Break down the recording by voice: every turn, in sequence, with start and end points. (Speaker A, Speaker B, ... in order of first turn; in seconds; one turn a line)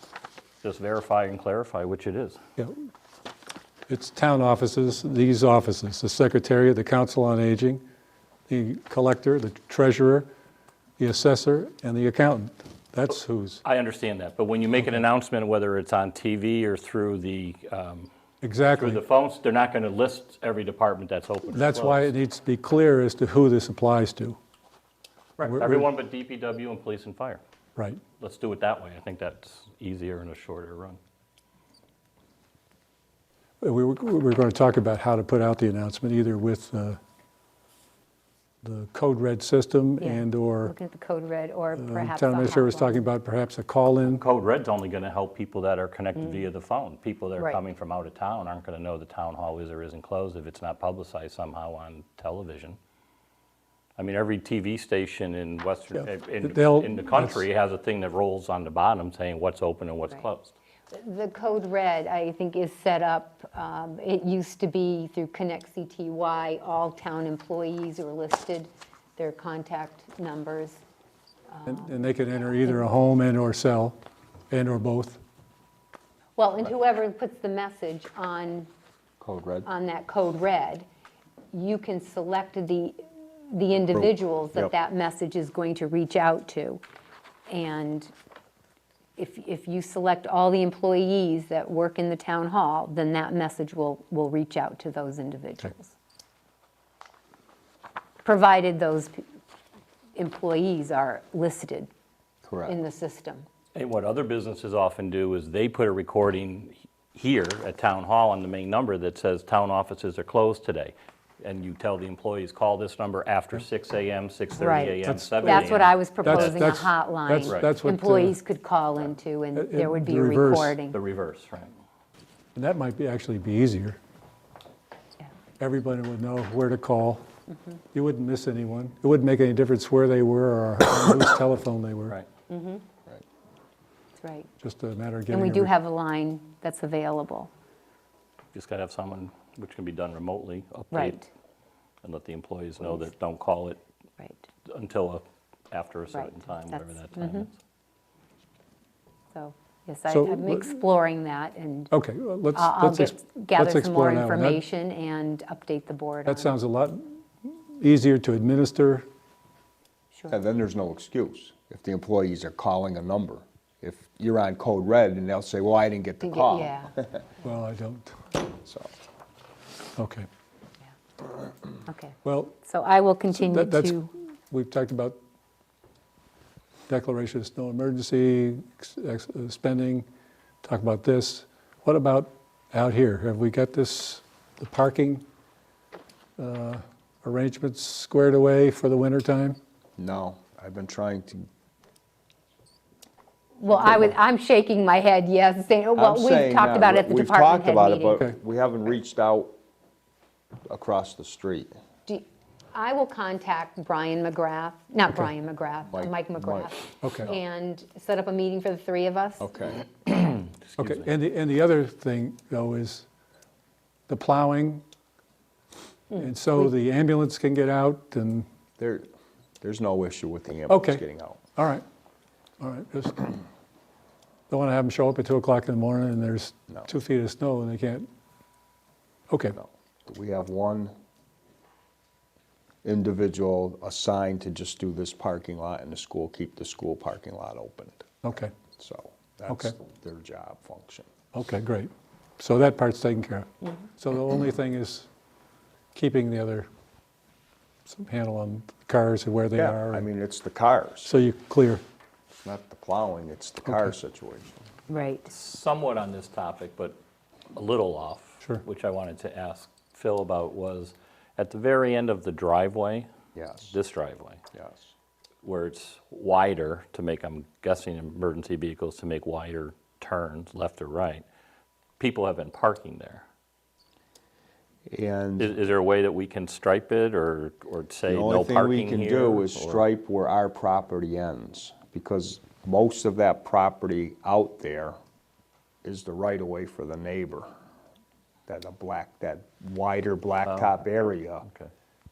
Speaker A: 0.6-2.4
Speaker B: 3.9-7.8
Speaker B: 8.5-10.3
Speaker B: 11.0-13.6
Speaker A: 13.6-18.1
Speaker B: 18.4-19.0
Speaker A: 18.8-22.1
Speaker B: 21.5-24.4
Speaker B: 25.4-25.9
Speaker A: 25.5-27.4
Speaker A: 28.2-31.0
Speaker B: 33.6-37.0
Speaker B: 38.6-40.7
Speaker C: 40.0-43.0
Speaker B: 41.8-44.2
Speaker A: 44.1-52.8
Speaker A: 54.0-60.5
Speaker B: 56.0-57.4
Speaker C: 60.9-70.8
Speaker C: 71.5-72.0
Speaker B: 71.7-74.0
Speaker B: 74.5-75.2
Speaker C: 76.4-78.7
Speaker D: 79.2-79.7
Speaker C: 79.6-80.8
Speaker C: 81.5-86.8
Speaker D: 83.9-84.7
Speaker C: 87.5-88.1
Speaker C: 89.2-95.9
Speaker C: 98.2-99.2
Speaker C: 100.1-101.9
Speaker D: 102.5-102.8
Speaker C: 102.7-103.4
Speaker A: 103.7-116.7
Speaker C: 114.5-121.0
Speaker B: 115.0-115.6
Speaker B: 116.2-118.4
Speaker B: 119.5-120.8
Speaker A: 120.9-121.7
Speaker B: 122.5-124.0
Speaker B: 125.6-127.2
Speaker B: 127.9-132.1
Speaker C: 132.5-132.8
Speaker C: 134.2-134.5
Speaker B: 134.6-135.7
Speaker C: 135.3-137.5
Speaker A: 138.5-141.2
Speaker C: 140.9-141.3
Speaker A: 142.0-143.8
Speaker A: 144.6-147.5
Speaker C: 146.1-147.5
Speaker C: 149.3-151.9
Speaker B: 150.1-150.7
Speaker B: 151.9-154.6
Speaker C: 152.5-156.5
Speaker B: 156.3-159.1
Speaker D: 160.3-167.2
Speaker C: 166.2-166.9
Speaker B: 167.4-168.3
Speaker B: 169.9-170.3
Speaker C: 171.8-174.1
Speaker B: 172.2-172.6
Speaker B: 173.3-175.2
Speaker B: 176.9-180.1
Speaker B: 180.6-185.2
Speaker B: 186.4-189.6
Speaker D: 190.0-191.4
Speaker C: 193.6-198.2
Speaker D: 193.8-194.1
Speaker D: 195.9-199.5
Speaker D: 200.7-201.7
Speaker C: 202.1-209.5
Speaker D: 205.9-206.7
Speaker B: 207.0-207.3
Speaker D: 209.4-209.8
Speaker A: 210.4-211.1
Speaker B: 210.8-213.1
Speaker B: 214.1-214.8
Speaker C: 216.1-216.7
Speaker B: 216.2-218.4
Speaker D: 218.8-219.1
Speaker D: 219.6-221.4
Speaker B: 220.7-221.0
Speaker B: 221.6-221.8
Speaker B: 222.6-223.3
Speaker B: 224.5-228.1
Speaker B: 229.3-229.6
Speaker D: 229.6-230.9
Speaker D: 232.8-238.2
Speaker B: 238.2-238.5
Speaker D: 238.7-241.1
Speaker B: 239.5-239.8
Speaker B: 241.3-245.1
Speaker B: 245.9-246.7
Speaker B: 247.9-250.0
Speaker D: 249.5-251.1
Speaker B: 251.0-251.8
Speaker D: 252.3-254.6
Speaker C: 254.9-255.3
Speaker A: 255.3-257.0
Speaker A: 257.5-263.1
Speaker D: 263.3-263.7
Speaker A: 263.6-264.4
Speaker D: 264.5-264.9
Speaker A: 265.4-271.2
Speaker A: 272.0-273.2
Speaker D: 274.9-275.5
Speaker A: 275.4-279.8
Speaker D: 278.1-284.9
Speaker D: 285.8-287.5
Speaker D: 288.5-291.4
Speaker A: 290.4-290.8
Speaker A: 291.4-291.7